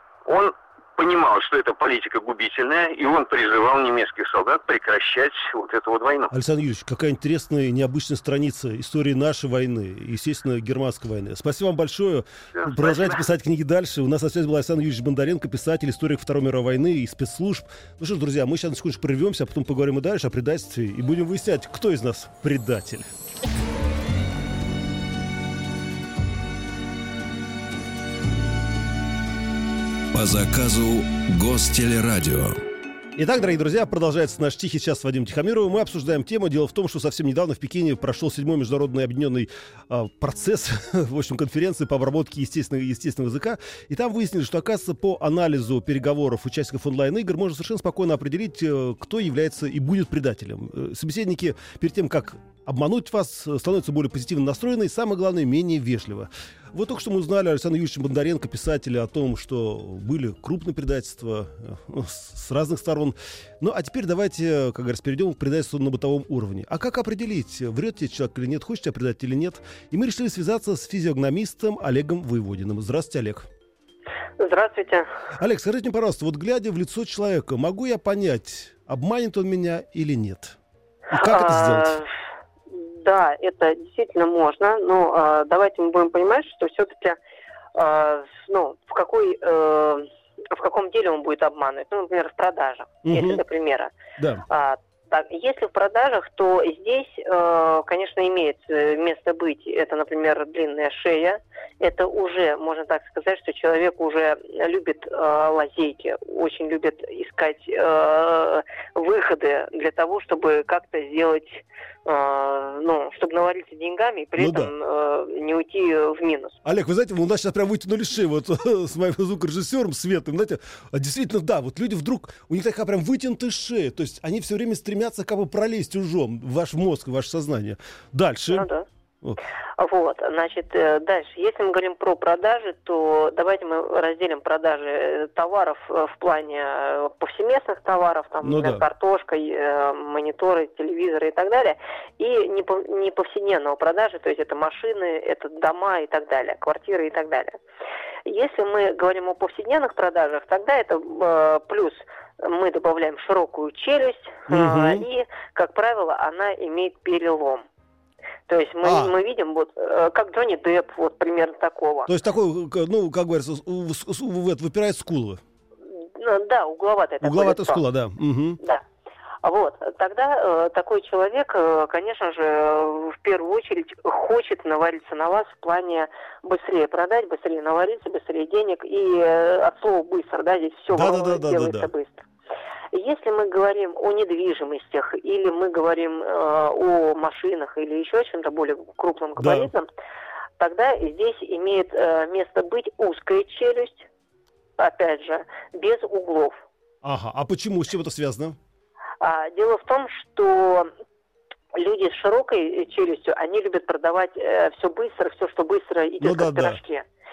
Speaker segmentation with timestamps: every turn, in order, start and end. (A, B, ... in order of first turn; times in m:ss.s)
0:00.3-0:06.3 A
0:06.3-0:23.1 B
0:12.6-0:13.2 A
0:30.1-0:32.6 C
0:33.1-1:13.5 B
1:14.4-1:15.1 D
1:15.4-1:20.6 B
1:21.1-1:22.0 B
1:21.2-1:22.1 D
1:22.7-1:27.2 D
1:27.8-1:33.9 D
1:33.0-1:33.4 B
1:34.2-1:34.4 B
1:34.5-1:56.6 D
1:54.4-1:54.7 B
1:56.6-2:08.7 B
2:08.5-2:08.9 D
2:09.8-2:27.6 D
2:18.4-2:18.8 B
2:28.3-2:37.6 D
2:34.5-2:35.0 B
2:38.5-2:42.1 D
2:38.8-2:39.1 B
2:42.1-2:45.4 B
2:46.0-2:47.8 D
2:47.2-2:48.6 B
2:49.4-3:02.3 D
3:00.9-3:01.9 B
3:02.9-3:09.9 D
3:09.4-3:09.7 B
3:10.6-3:14.1 D
3:14.8-3:16.6 D
3:17.0-3:18.6 B
3:19.2-3:20.9 D
3:21.8-3:27.1 D
3:26.2-3:26.8 B